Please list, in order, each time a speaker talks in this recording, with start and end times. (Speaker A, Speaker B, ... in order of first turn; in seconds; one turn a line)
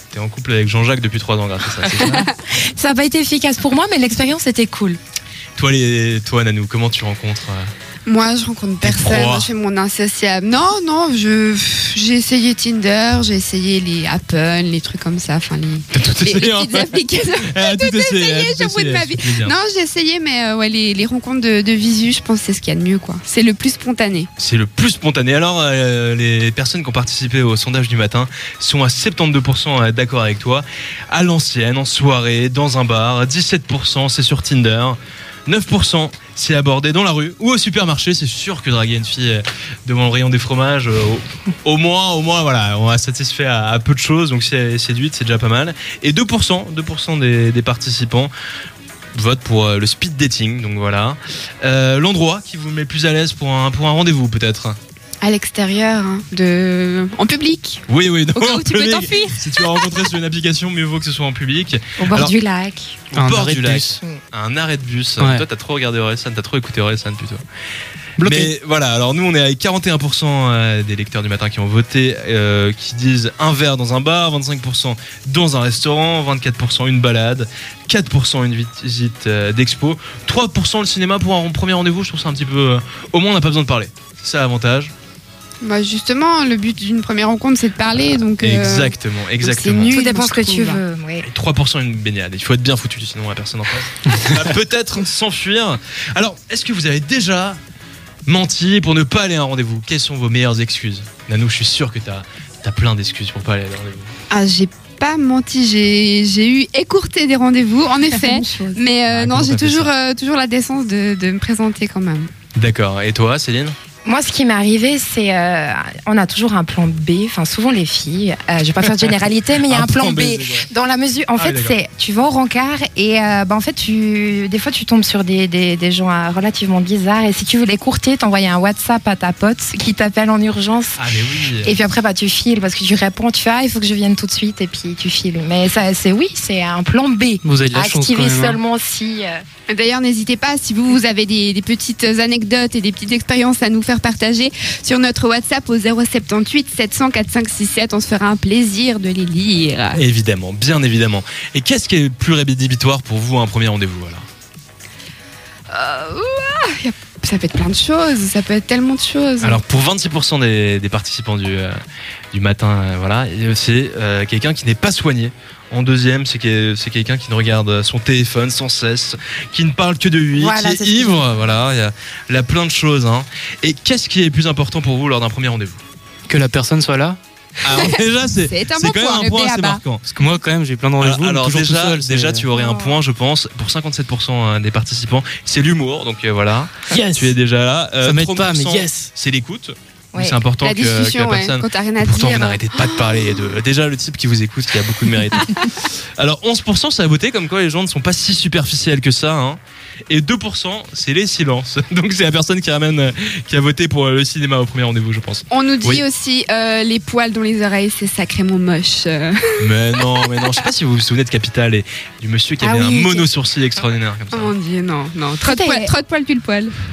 Speaker A: 0.1-2.3
Speaker B: 1.8-5.0
Speaker A: 5.6-7.7
Speaker C: 8.1-24.3
Speaker A: 8.8-9.5
Speaker A: 15.9-19.6
Speaker A: 24.4-48.3
Speaker A: 49.1-54.8
Speaker C: 55.2-57.8
Speaker A: 57.9-62.3
Speaker C: 58.3-59.9
Speaker B: 62.0-63.0
Speaker A: 63.1-67.4
Speaker D: 63.1-64.0
Speaker D: 65.2-65.5
Speaker D: 68.2-68.5
Speaker A: 68.2-84.9
Speaker C: 85.6-90.8
Speaker A: 88.4-90.0
Speaker B: 89.9-91.3
Speaker A: 91.2-97.6
Speaker A: 98.3-104.1
Speaker C: 104.3-112.3
Speaker B: 108.1-108.8
Speaker A: 109.1-109.9
Speaker A: 112.6-113.8
Speaker B: 114.0-139.4
Speaker A: 119.6-120.7
Speaker A: 121.4-121.8
Speaker A: 131.0-131.8
Speaker D: 137.4-138.6
Speaker C: 139.7-150.0
Speaker A: 150.0-154.2
Speaker C: 155.7-159.6
Speaker A: 159.4-161.8
Speaker A: 162.3-175.8
Speaker B: 170.4-171.4
Speaker D: 176.3-177.2
Speaker A: 177.6-180.1
Speaker C: 177.7-179.8
Speaker D: 180.1-182.5
Speaker A: 181.0-206.0
Speaker B: 182.5-183.0
Speaker D: 186.9-187.3
Speaker D: 188.0-189.1
Speaker B: 190.1-190.4
Speaker C: 190.6-193.6
Speaker C: 205.5-210.5
Speaker A: 209.6-214.5
Speaker B: 212.6-213.3
Speaker C: 214.3-216.7
Speaker B: 215.4-215.9